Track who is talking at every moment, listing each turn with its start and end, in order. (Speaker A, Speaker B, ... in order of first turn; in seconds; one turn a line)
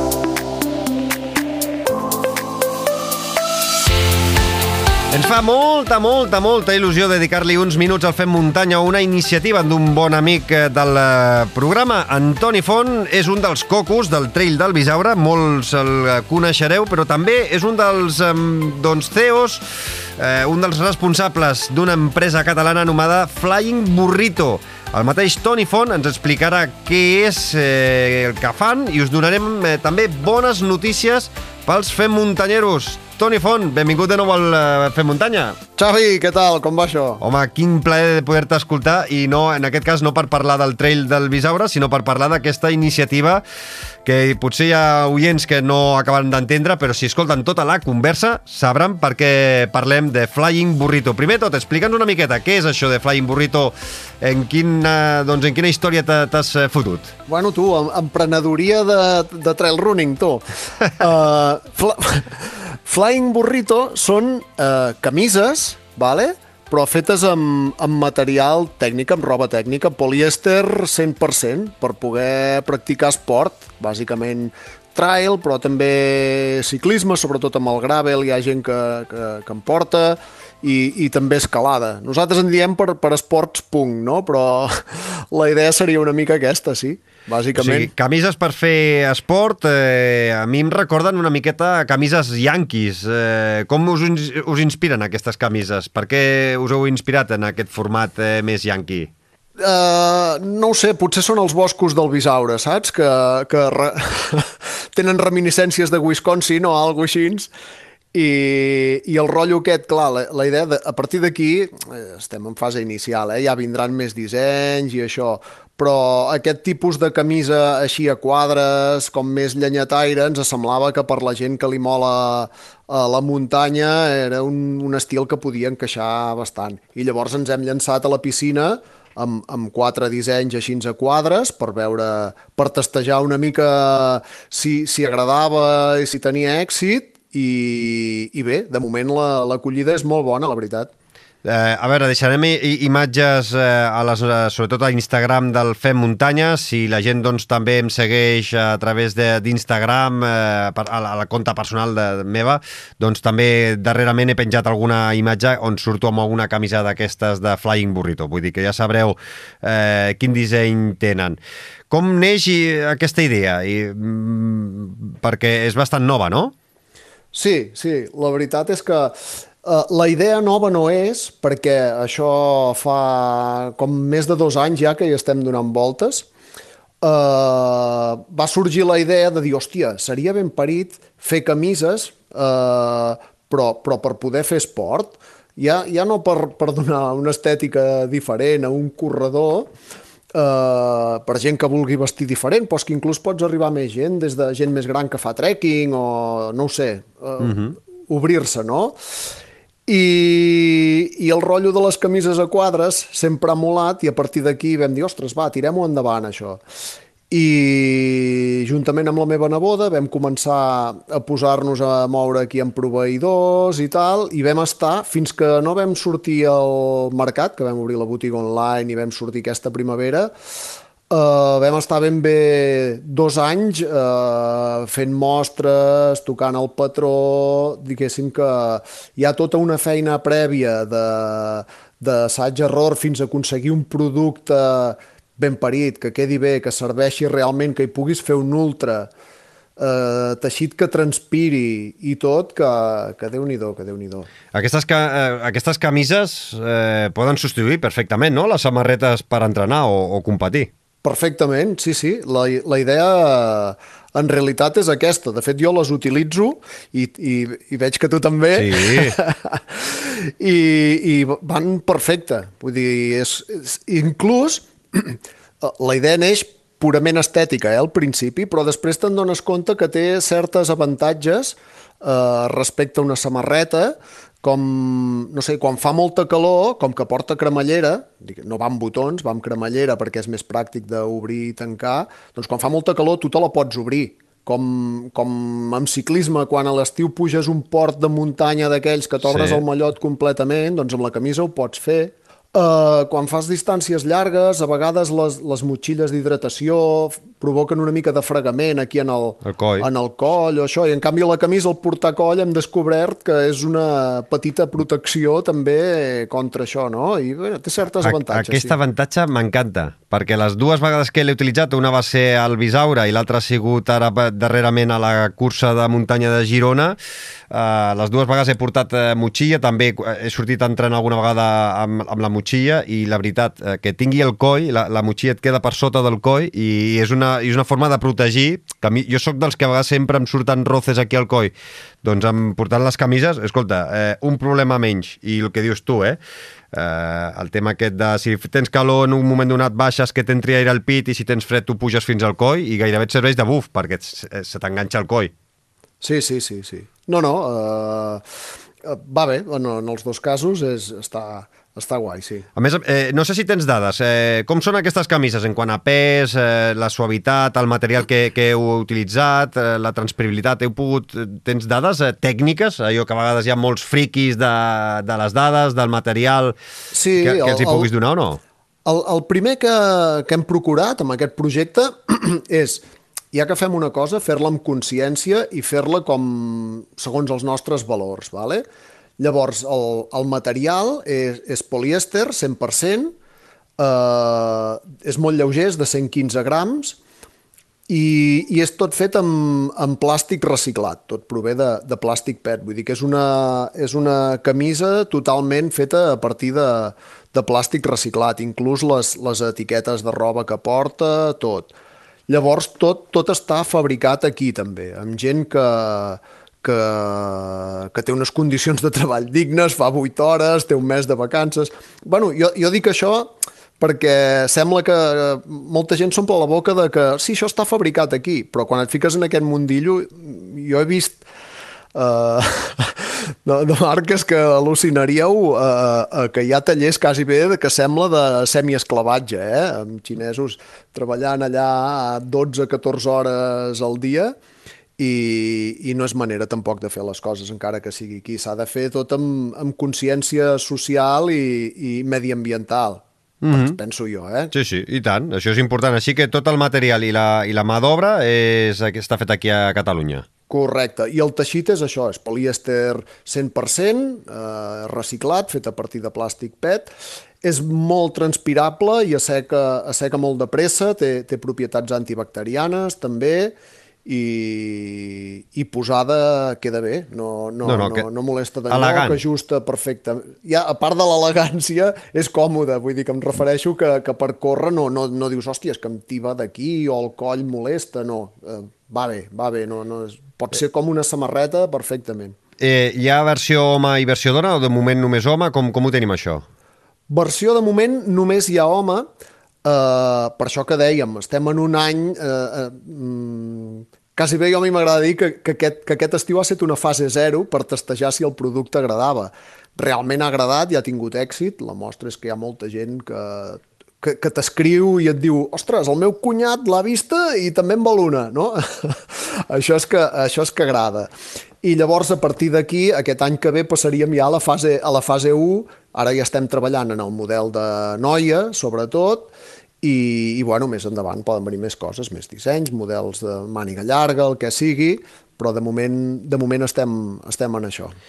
Speaker A: 5.1-19.6
Speaker A: 20.2-35.6
Speaker B: 35.8-37.2
Speaker A: 37.2-43.4
Speaker A: 44.0-57.1
Speaker B: 57.3-87.9
Speaker A: 87.5-99.1
Speaker B: 99.6-107.5
Speaker B: 108.1-140.9
Speaker A: 141.4-161.4
Speaker A: 161.9-166.5
Speaker B: 167.3-176.3
Speaker B: 177.0-189.7
Speaker B: 190.3-199.0
Speaker A: 197.4-197.7
Speaker B: 199.9-206.6
Speaker B: 207.3-220.3
Speaker B: 221.1-239.1
Speaker B: 239.8-244.3
Speaker A: 244.5-250.7
Speaker B: 251.0-308.8
Speaker A: 258.5-259.2
Speaker A: 289.2-289.6
Speaker A: 299.4-299.9
Speaker A: 308.0-317.0
Speaker A: 317.5-336.2
Speaker A: 336.7-345.3
Speaker B: 346.0-348.2
Speaker B: 348.8-352.5
Speaker A: 352.6-366.6
Speaker B: 366.9-367.9
Speaker A: 367.2-368.4
Speaker B: 368.9-378.6
Speaker B: 379.2-383.1
Speaker B: 383.8-387.0
Speaker B: 387.9-401.7
Speaker B: 402.3-421.2
Speaker B: 421.9-434.4
Speaker B: 435.0-444.5
Speaker A: 443.4-443.8
Speaker A: 444.5-450.3
Speaker B: 450.5-482.4
Speaker A: 467.6-468.1
Speaker A: 468.7-469.2
Speaker A: 482.6-486.4
Speaker B: 487.1-489.1
Speaker B: 489.6-511.1
Speaker B: 511.6-528.0